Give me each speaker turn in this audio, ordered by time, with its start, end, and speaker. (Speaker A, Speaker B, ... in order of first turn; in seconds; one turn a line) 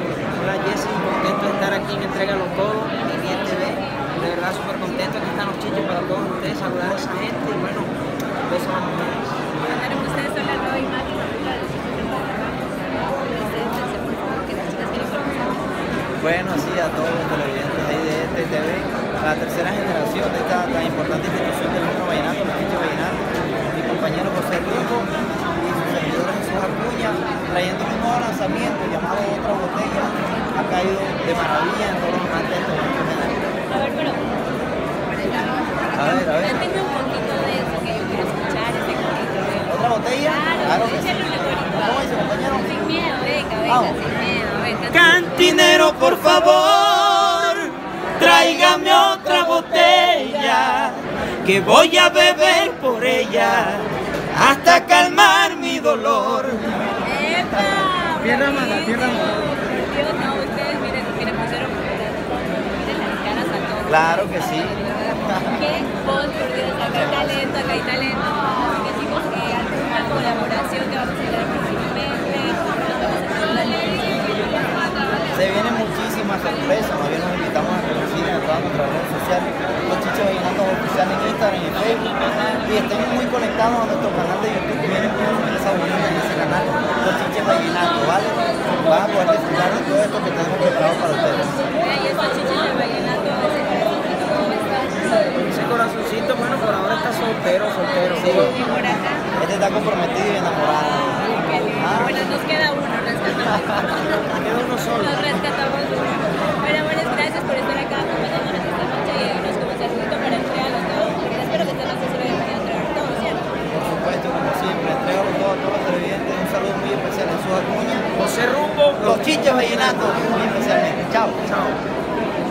Speaker A: 0.4-7.9
Speaker A: 8.5-10.0
Speaker B: 9.7-15.6
Speaker C: 16.2-33.4
Speaker B: 33.7-34.2
Speaker B: 35.1-39.7
Speaker C: 35.9-36.6
Speaker C: 39.7-42.9
Speaker B: 40.2-42.0
Speaker B: 42.5-45.6
Speaker C: 43.7-44.0
Speaker D: 44.9-56.6
Speaker B: 57.0-74.9
Speaker D: 58.8-59.1
Speaker C: 63.9-65.6
Speaker C: 66.9-67.4
Speaker C: 75.3-82.0
Speaker C: 82.6-91.5
Speaker B: 91.7-95.0
Speaker A: 95.3-98.5
Speaker C: 98.2-98.5
Speaker B: 98.5-99.2
Speaker C: 99.4-102.2
Speaker B: 100.9-104.4
Speaker C: 103.6-104.0
Speaker A: 104.4-105.4
Speaker B: 104.9-113.4
Speaker C: 113.7-118.1
Speaker A: 118.1-120.2
Speaker C: 119.0-121.4
Speaker A: 121.5-121.8